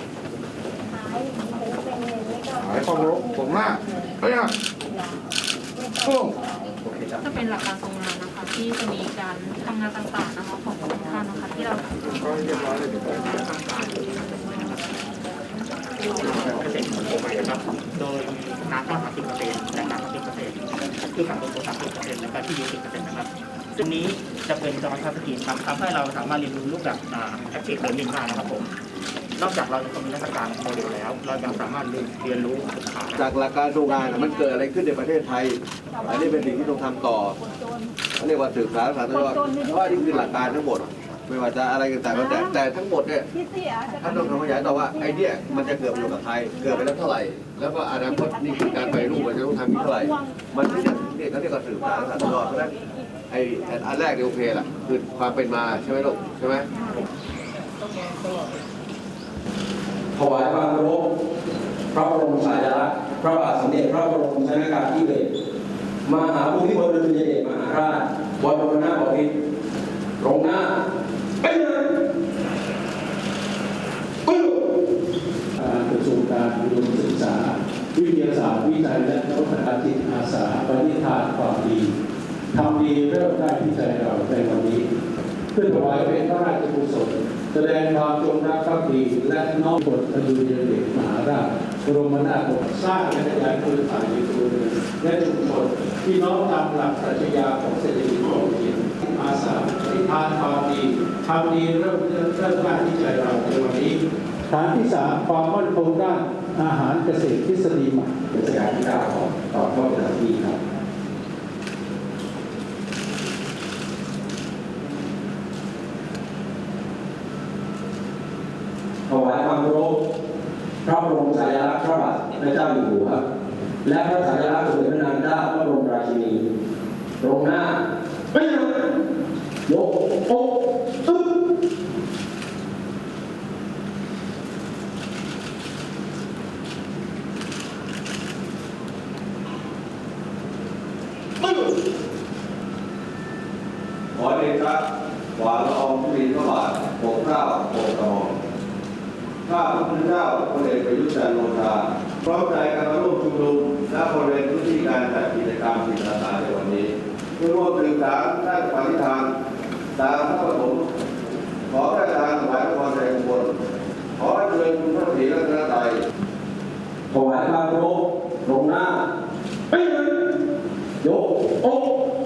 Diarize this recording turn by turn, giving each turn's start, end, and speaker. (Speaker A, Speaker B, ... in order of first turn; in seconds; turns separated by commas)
Speaker A: 1.9-2.4, Speaker B: 2.5-4.5, Speaker B: 6.0-6.4, Speaker C: 6.9-7.1, Speaker A: 7.2-12.4, Speaker D: 12.4-15.2, Speaker D: 16.0-28.8, Speaker D: 29.4-33.2, Speaker E: 33.1-37.4, Speaker E: 38.2-43.3, Speaker E: 44.0-52.8, Speaker E: 53.3-56.7, Speaker C: 60.1-61.1, Speaker C: 61.9-65.3, Speaker C: 66.1-69.3, Speaker C: 70.2-70.8, Speaker C: 71.4-71.9, Speaker C: 74.3-74.6, Speaker F: 75.6-81.9, Speaker F: 82.5-84.9, Speaker F: 85.5-108.2, Speaker C: 108.3-110.6, Speaker C: 119.1-120.0, Speaker C: 120.8-123.2, Speaker C: 123.8-126.4, Speaker C: 127.2-127.8, Speaker C: 128.3-129.0, Speaker C: 129.7-131.3, Speaker E: 144.1-144.8, Speaker E: 145.3-148.4, Speaker E: 149.5-159.3, Speaker E: 160.0-160.9, Speaker E: 161.7-163.6, Speaker E: 164.2-166.0, Speaker C: 167.1-169.0, Speaker C: 169.7-170.3, Speaker C: 171.0-172.0